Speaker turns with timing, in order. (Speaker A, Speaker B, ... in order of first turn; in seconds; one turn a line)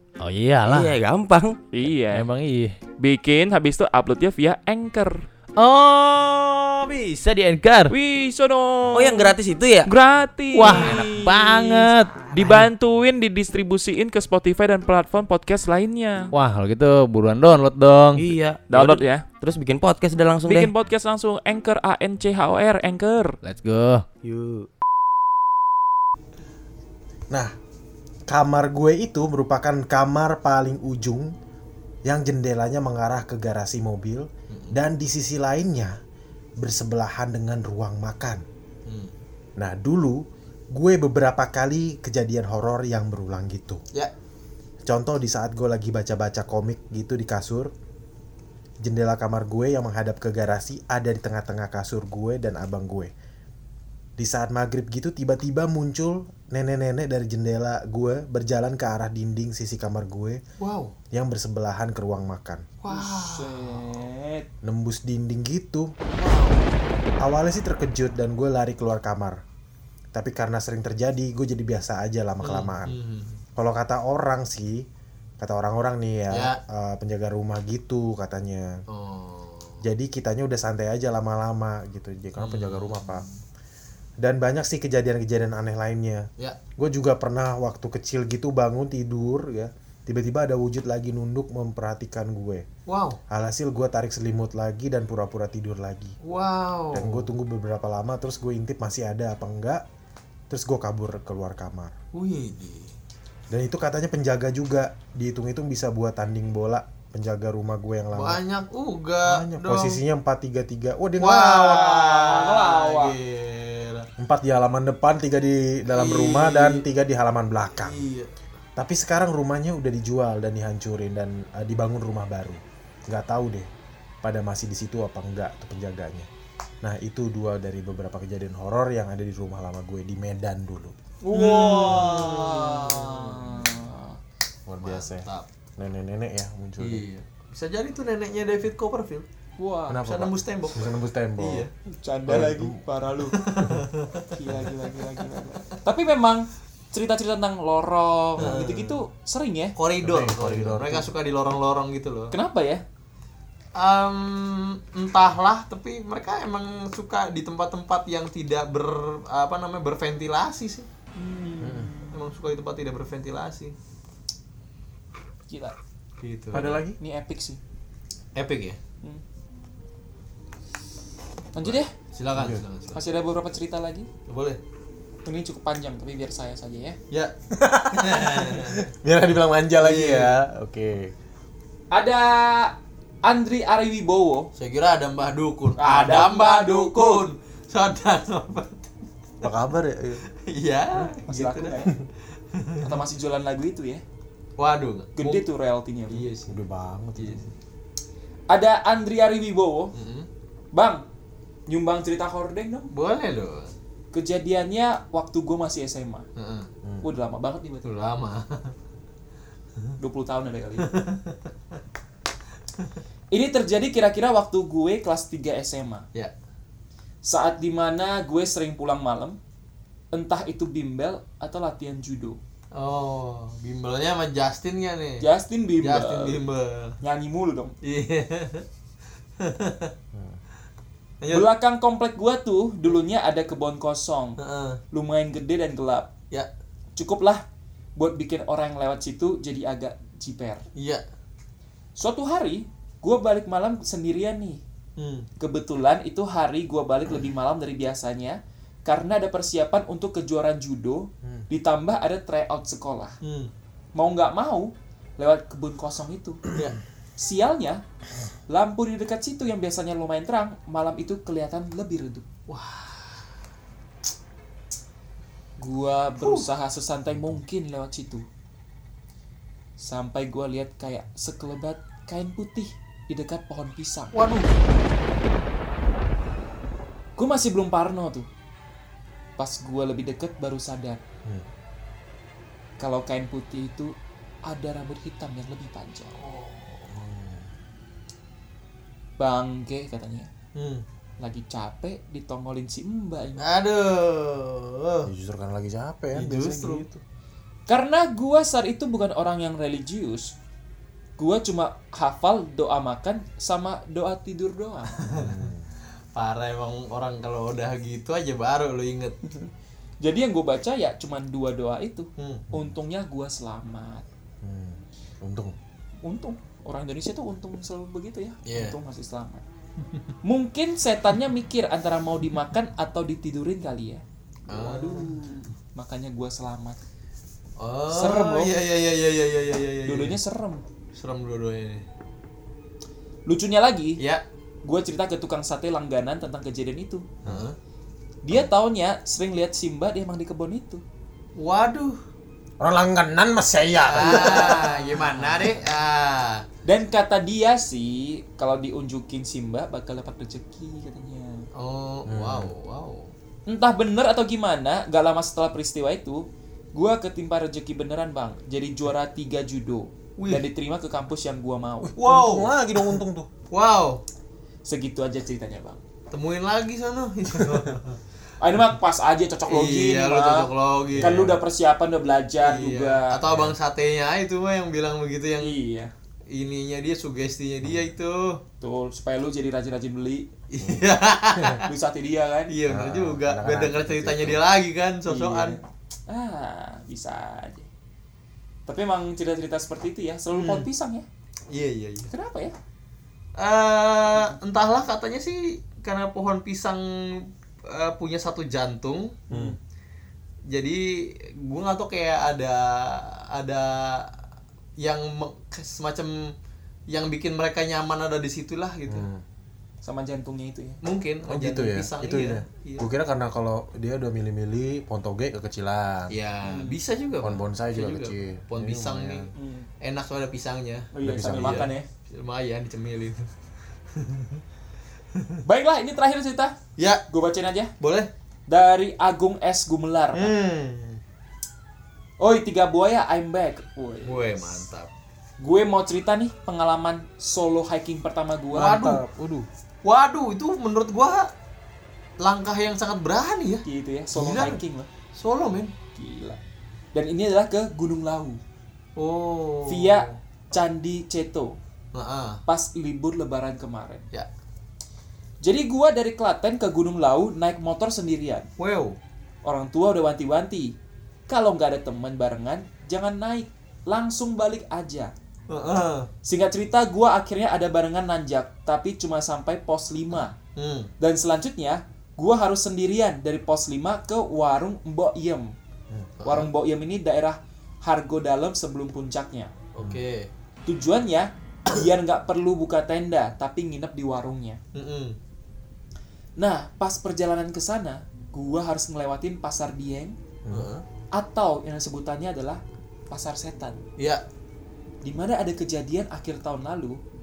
Speaker A: 0.2-1.0
Speaker B: 0.7-1.7
Speaker C: 1.7-2.3
Speaker A: 2.1-2.8
Speaker C: 3.0-5.2
Speaker A: 5.6-7.9
Speaker C: 7.9-9.3
Speaker B: 8.9-9.9
Speaker C: 9.9-16.3
Speaker A: 10.5-12.7
Speaker D: 10.7-10.9
Speaker A: 16.3-18.3
Speaker B: 18.2-20.7
Speaker C: 18.7-19.3
Speaker C: 20.5-23.4
Speaker A: 23.4-24.2
Speaker B: 24.3-24.6
Speaker E: 28.3-31.3
Speaker E: 32.0-36.0
Speaker F: 34.5-34.8
Speaker E: 36.6-38.4
Speaker F: 38.9-39.1
Speaker E: 39.6-43.8
Speaker E: 44.9-47.7
Speaker E: 48.8-53.1
Speaker E: 54.2-60.4
Speaker F: 60.6-61.0
Speaker E: 61.1-62.7
Speaker F: 62.8-63.8
Speaker D: 62.9-64.5
Speaker E: 64.6-66.0
Speaker F: 66.2-66.7
Speaker E: 67.2-69.4
Speaker E: 70.1-73.0
Speaker F: 72.4-73.4
Speaker E: 73.6-74.9
Speaker E: 75.4-78.8
Speaker F: 76.3-76.6
Speaker F: 78.9-79.8
Speaker E: 79.8-83.2
Speaker F: 82.4-83.3
Speaker E: 84.2-92.7
Speaker F: 92.9-93.2
Speaker E: 93.3-96.2
Speaker F: 96.2-97.3
Speaker E: 96.9-99.8
Speaker E: 100.5-101.9
Speaker F: 102.1-102.9
Speaker E: 103.5-108.4
Speaker F: 108.1-110.0
Speaker E: 109.2-112.0
Speaker F: 111.2-114.1
Speaker D: 111.8-113.2
Speaker E: 114.2-118.0
Speaker F: 115.9-116.9
Speaker F: 117.8-118.3
Speaker E: 118.8-123.7
Speaker E: 124.2-126.3
Speaker E: 126.8-130.9
Speaker D: 131.2-134.2
Speaker F: 131.3-133.4
Speaker E: 131.9-132.2
Speaker E: 134.7-137.0
Speaker F: 134.8-135.5
Speaker F: 136.8-139.3
Speaker D: 139.6-140.0
Speaker E: 139.9-141.7
Speaker F: 140.0-141.7
Speaker D: 141.9-143.4
Speaker E: 142.3-142.8
Speaker F: 143.3-144.3
Speaker E: 143.6-143.9
Speaker D: 144.3-149.8
Speaker E: 148.4-148.7
Speaker F: 148.4-149.0
Speaker F: 149.8-152.3
Speaker E: 150.0-151.1
Speaker D: 152.3-152.8
Speaker F: 153.8-160.9
Speaker D: 161.2-162.2
Speaker E: 161.6-161.9
Speaker F: 162.1-163.8
Speaker D: 165.5-165.8
Speaker F: 166.2-166.8
Speaker E: 166.5-167.0
Speaker D: 167.0-167.6
Speaker F: 168.3-168.8
Speaker D: 171.5-171.9
Speaker F: 172.1-173.0
Speaker E: 172.4-172.6
Speaker D: 172.9-174.1
Speaker F: 174.3-174.6
Speaker D: 175.2-177.0
Speaker E: 177.6-181.2
Speaker F: 177.9-178.9
Speaker F: 179.8-180.4
Speaker D: 181.9-184.5
Speaker F: 184.6-188.8
Speaker D: 185.8-187.2
Speaker E: 189.4-190.2
Speaker F: 190.3-191.9
Speaker D: 191.3-191.9
Speaker F: 192.5-192.9
Speaker D: 192.8-194.0
Speaker F: 194.6-195.4
Speaker D: 195.2-196.2
Speaker F: 196.1-196.6
Speaker E: 196.5-197.5
Speaker F: 197.2-197.5
Speaker D: 198.5-199.9
Speaker F: 199.9-200.3
Speaker D: 200.7-201.0
Speaker D: 201.7-202.9
Speaker F: 202.9-203.7
Speaker D: 204.1-206.3
Speaker F: 206.4-206.7
Speaker D: 207.0-207.9
Speaker F: 207.8-208.7
Speaker D: 210.0-210.9
Speaker F: 210.8-211.4
Speaker D: 213.3-216.1
Speaker D: 217.2-219.4
Speaker D: 220.1-222.4
Speaker F: 222.7-225.3
Speaker D: 225.2-226.4
Speaker F: 225.8-227.0
Speaker D: 227.0-227.8
Speaker F: 227.8-228.7
Speaker F: 229.4-229.9
Speaker E: 230.1-230.4
Speaker F: 231.2-231.5
Speaker D: 231.3-234.4
Speaker F: 234.4-234.8
Speaker D: 234.9-236.1
Speaker D: 237.0-237.4
Speaker D: 238.0-240.7
Speaker F: 240.8-241.0
Speaker D: 242.0-244.6
Speaker F: 245.0-245.3
Speaker D: 245.4-253.2
Speaker F: 253.2-253.5
Speaker D: 253.9-256.4
Speaker D: 257.2-257.8
Speaker D: 258.5-262.2
Speaker F: 262.5-263.2
Speaker D: 265.6-268.3
Speaker F: 266.2-266.5
Speaker D: 269.8-274.3
Speaker F: 274.1-274.6
Speaker D: 277.2-278.3
Speaker D: 279.4-281.0
Speaker D: 282.8-283.9
Speaker D: 284.5-286.2
Speaker F: 286.1-287.0
Speaker E: 286.9-287.5
Speaker D: 289.2-290.3
Speaker F: 290.6-290.8
Speaker D: 291.2-293.4
Speaker F: 293.4-295.1
Speaker E: 295.1-297.0
Speaker F: 296.1-296.9
Speaker D: 297.7-300.3
Speaker D: 301.2-304.9
Speaker F: 304.9-305.4
Speaker E: 305.1-305.7
Speaker F: 306.1-309.2
Speaker D: 309.2-309.5
Speaker D: 310.0-314.1
Speaker F: 312.2-312.4
Speaker E: 314.4-315.6
Speaker D: 316.0-319.4
Speaker F: 318.5-318.8
Speaker D: 320.2-326.8
Speaker F: 324.5-325.1
Speaker F: 327.6-330.2
Speaker D: 327.9-328.5
Speaker D: 329.9-330.6
Speaker F: 330.9-331.8
Speaker D: 333.3-334.0
Speaker D: 334.6-337.1
Speaker F: 337.2-337.6
Speaker D: 338.2-340.8
Speaker F: 341.4-342.0
Speaker E: 342.6-344.8
Speaker F: 343.9-346.5
Speaker D: 344.0-345.5
Speaker D: 346.6-351.5
Speaker F: 351.6-353.1
Speaker E: 352.1-352.5
Speaker D: 353.5-361.9
Speaker F: 360.2-360.5
Speaker E: 361.9-363.3
Speaker F: 362.0-362.5
Speaker F: 363.5-364.0
Speaker D: 364.6-365.8
Speaker F: 366.1-368.0
Speaker D: 368.4-370.5
Speaker F: 369.5-371.3
Speaker E: 370.9-371.4
Speaker D: 371.0-373.2
Speaker F: 372.4-375.6
Speaker E: 373.3-373.6
Speaker D: 375.4-375.9
Speaker F: 376.3-378.4
Speaker D: 378.6-380.3
Speaker F: 380.5-381.6
Speaker D: 381.6-382.5
Speaker F: 382.5-385.6
Speaker E: 382.7-384.4
Speaker D: 385.1-387.7
Speaker D: 388.7-391.1
Speaker F: 390.4-390.7
Speaker F: 391.5-392.1
Speaker D: 392.1-392.5
Speaker F: 393.4-399.3
Speaker D: 394.1-394.4
Speaker D: 399.3-399.6
Speaker E: 399.3-399.6
Speaker F: 400.5-404.1
Speaker F: 404.8-406.4
Speaker F: 406.9-409.1
Speaker E: 408.9-409.2
Speaker D: 409.8-410.8
Speaker F: 410.8-412.9
Speaker E: 411.3-416.1
Speaker F: 416.1-419.3
Speaker D: 416.4-416.8
Speaker E: 417.2-419.3
Speaker D: 419.4-419.7
Speaker F: 419.8-423.3
Speaker D: 420.9-421.9
Speaker E: 421.0-421.7
Speaker F: 423.9-424.4
Speaker D: 425.4-426.6
Speaker F: 426.8-427.0
Speaker D: 427.1-427.7
Speaker F: 427.8-428.1
Speaker D: 428.5-430.3
Speaker F: 430.1-431.0
Speaker D: 432.2-434.4
Speaker F: 434.0-434.9
Speaker D: 435.4-438.8
Speaker F: 438.5-439.0
Speaker E: 438.5-439.5
Speaker F: 439.8-441.3
Speaker F: 442.2-444.6
Speaker D: 443.7-444.9
Speaker F: 445.1-445.7
Speaker D: 445.9-446.4
Speaker D: 446.9-448.4
Speaker F: 449.0-450.2
Speaker D: 449.7-451.6
Speaker F: 451.9-452.4
Speaker D: 452.5-454.1
Speaker D: 455.4-458.5
Speaker F: 458.6-459.0
Speaker D: 459.4-460.7
Speaker D: 461.3-465.1
Speaker F: 465.5-466.1
Speaker D: 466.2-470.3
Speaker F: 470.6-470.9
Speaker D: 471.0-475.5
Speaker F: 476.2-476.5
Speaker D: 476.2-479.5
Speaker F: 479.8-480.3
Speaker D: 480.7-484.6
Speaker F: 484.7-485.2
Speaker D: 486.4-490.2
Speaker E: 490.4-490.7
Speaker F: 490.5-490.8
Speaker D: 491.1-493.8
Speaker F: 494.0-494.2
Speaker D: 495.0-497.0